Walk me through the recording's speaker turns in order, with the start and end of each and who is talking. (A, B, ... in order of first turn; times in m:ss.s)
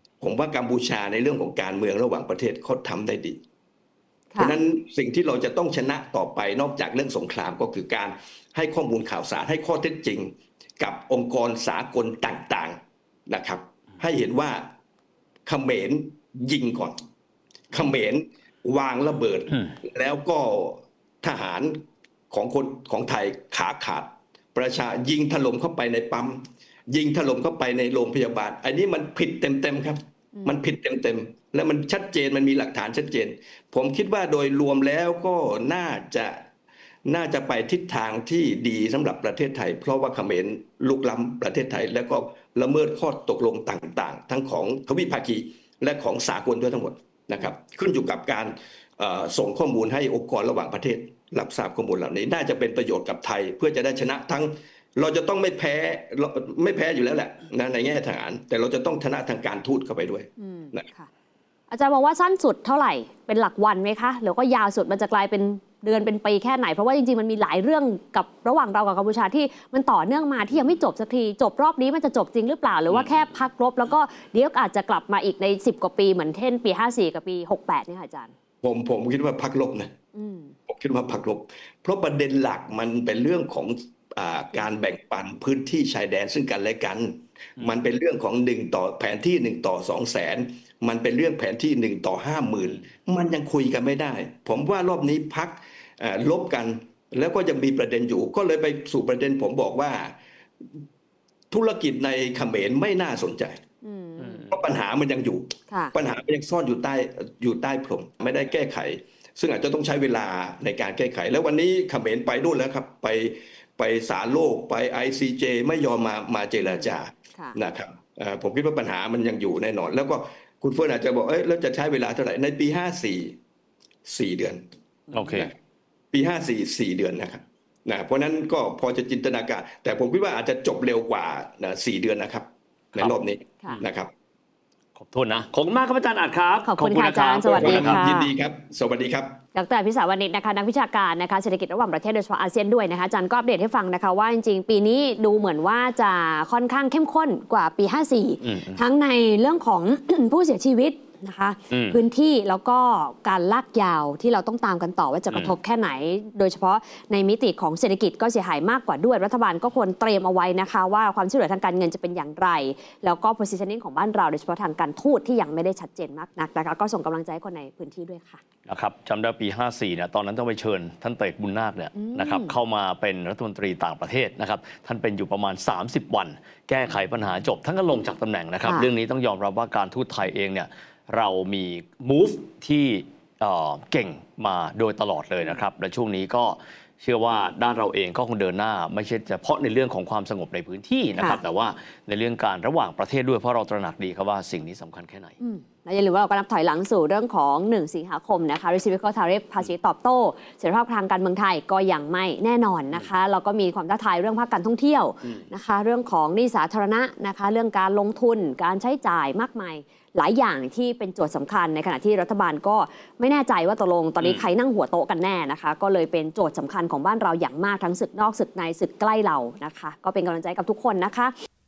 0:00.2-0:03.4 A
0:04.4-0:14.7 A
0:15.4-0:16.9 A
0:17.7-0:21.8 A
0:22.3-0:36.4 A
0:37.0-1:00.9 A
1:00.4-1:01.1 B
1:01.7-1:18.3 B
1:18.6-1:19.9 A
1:20.1-1:20.5 B
1:20.7-1:40.2 A
1:41.5-1:43.6 A
1:43.8-1:44.5 B
1:44.2-1:44.5 C
1:44.5-2:03.4 A
2:04.0-2:04.6 A
2:05.1-2:05.5 C
2:06.1-2:14.1 A
2:15.0-2:18.0 C
2:16.6-2:18.3 B
2:17.5-2:19.4 A
2:19.5-2:48.4 B
2:28.4-2:28.8 C
2:31.7-2:32.0 C
2:48.7-3:15.3 C
2:51.9-2:52.5 B
3:15.4-3:41.3 B